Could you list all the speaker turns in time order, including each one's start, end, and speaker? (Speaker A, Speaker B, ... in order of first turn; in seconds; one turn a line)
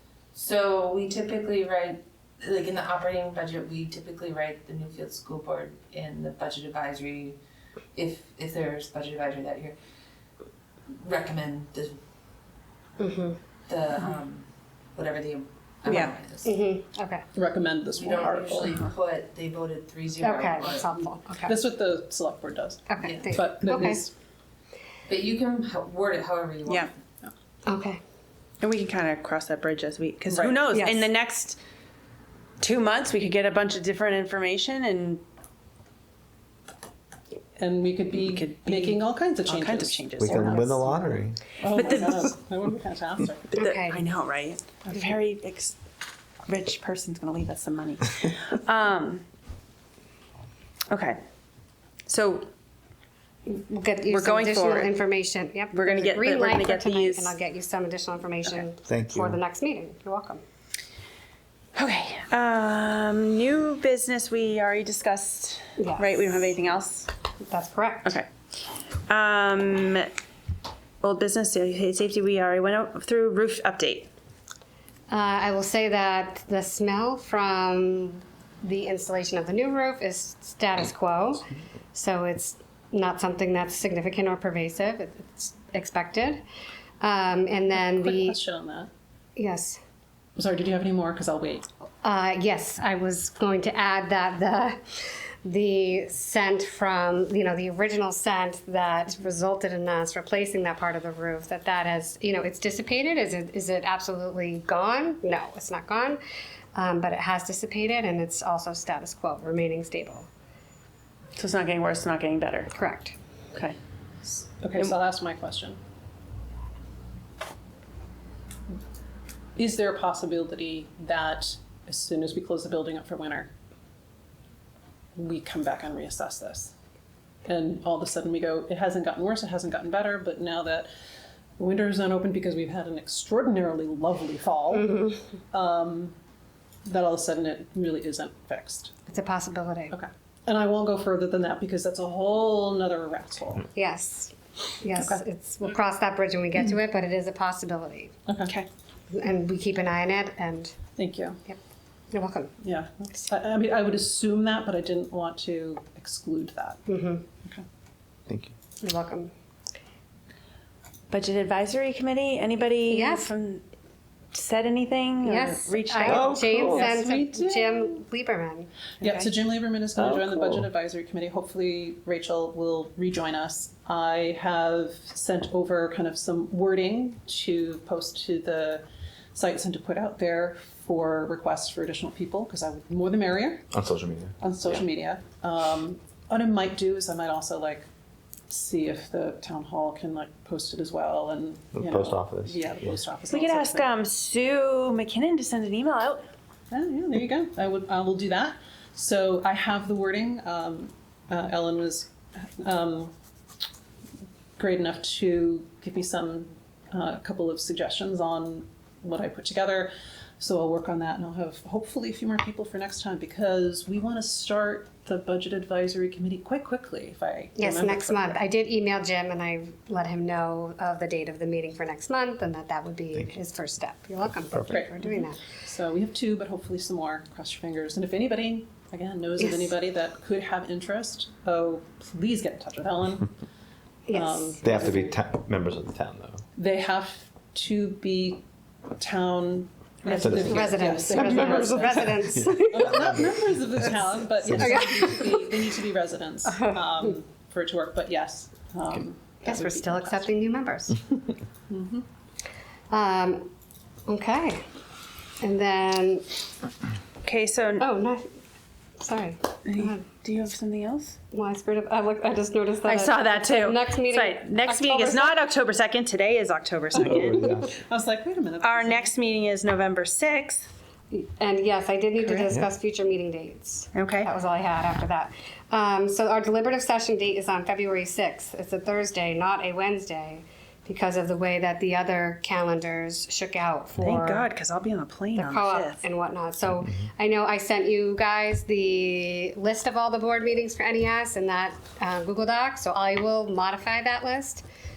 Speaker A: 0.3-7.4
Speaker A: 8.0-9.8
Speaker A: 10.9-12.0
Speaker B: 13.0-13.4
Speaker A: 13.7-16.6
Speaker C: 15.9-16.1
Speaker B: 16.4-17.3
Speaker D: 17.4-18.9
Speaker A: 18.0-20.9
Speaker B: 20.2-21.6
Speaker D: 21.5-24.1
Speaker B: 22.9-24.0
Speaker A: 23.0-23.3
Speaker A: 25.1-26.9
Speaker B: 27.7-28.0
Speaker C: 28.6-31.6
Speaker D: 30.3-30.7
Speaker B: 30.7-31.1
Speaker C: 32.6-35.2
Speaker D: 37.6-41.0
Speaker C: 38.2-40.8
Speaker E: 40.2-41.4
Speaker D: 41.6-43.6
Speaker C: 41.6-42.4
Speaker C: 43.5-45.8
Speaker B: 43.6-44.0
Speaker C: 46.5-49.2
Speaker C: 50.9-51.2
Speaker C: 52.1-52.5
Speaker B: 53.5-60.4
Speaker C: 54.1-55.0
Speaker C: 55.7-57.4
Speaker E: 58.9-59.4
Speaker C: 61.8-67.1
Speaker B: 65.8-66.3
Speaker B: 67.5-68.2
Speaker C: 68.0-68.3
Speaker C: 69.1-70.1
Speaker C: 71.0-74.1
Speaker B: 75.1-86.4
Speaker B: 87.0-88.4
Speaker D: 87.7-88.9
Speaker B: 89.4-89.8
Speaker D: 90.4-91.7
Speaker B: 92.0-106.2
Speaker B: 106.8-110.3
Speaker C: 111.4-112.7
Speaker B: 112.7-113.2
Speaker D: 114.2-115.8
Speaker D: 119.6-123.5
Speaker D: 125.2-126.7
Speaker D: 127.5-130.9
Speaker D: 131.6-136.1
Speaker B: 134.7-135.2
Speaker D: 136.8-138.9
Speaker B: 139.1-139.9
Speaker D: 139.9-143.7
Speaker B: 143.7-148.2
Speaker D: 145.0-145.2
Speaker D: 148.3-148.5
Speaker B: 149.1-150.8
Speaker D: 151.0-151.4
Speaker B: 152.1-152.5
Speaker D: 152.6-156.8
Speaker B: 156.9-157.3
Speaker E: 158.3-158.5
Speaker B: 158.8-159.3
Speaker C: 161.1-163.7
Speaker B: 162.9-163.3
Speaker C: 164.3-166.5
Speaker B: 165.2-169.3
Speaker E: 166.1-166.9
Speaker D: 166.4-168.0
Speaker D: 169.0-183.7
Speaker E: 170.0-170.7
Speaker E: 183.7-184.3
Speaker D: 184.4-187.9
Speaker D: 188.5-194.0
Speaker E: 191.7-192.9
Speaker C: 193.3-196.3
Speaker D: 196.7-203.1
Speaker D: 204.6-218.4
Speaker B: 217.6-225.4
Speaker D: 224.7-233.3
Speaker B: 229.4-229.8
Speaker B: 234.1-235.1
Speaker D: 234.1-235.1
Speaker E: 234.6-236.4
Speaker D: 236.6-238.4
Speaker D: 239.0-250.3
Speaker E: 240.2-243.2
Speaker B: 240.4-243.1
Speaker B: 244.4-245.6
Speaker E: 244.5-244.8
Speaker B: 246.5-247.1
Speaker B: 249.4-251.0
Speaker D: 251.7-252.1
Speaker B: 252.9-253.5
Speaker B: 254.1-254.7
Speaker B: 255.4-256.2
Speaker C: 257.2-257.9
Speaker B: 257.8-258.3
Speaker B: 259.0-260.0
Speaker C: 259.7-261.2
Speaker B: 261.3-265.4
Speaker C: 262.9-267.6
Speaker E: 267.0-267.7
Speaker D: 267.7-269.1
Speaker C: 268.6-270.7
Speaker B: 271.1-284.5
Speaker C: 272.2-272.5
Speaker C: 273.9-274.3
Speaker C: 284.0-286.0
Speaker B: 285.4-294.6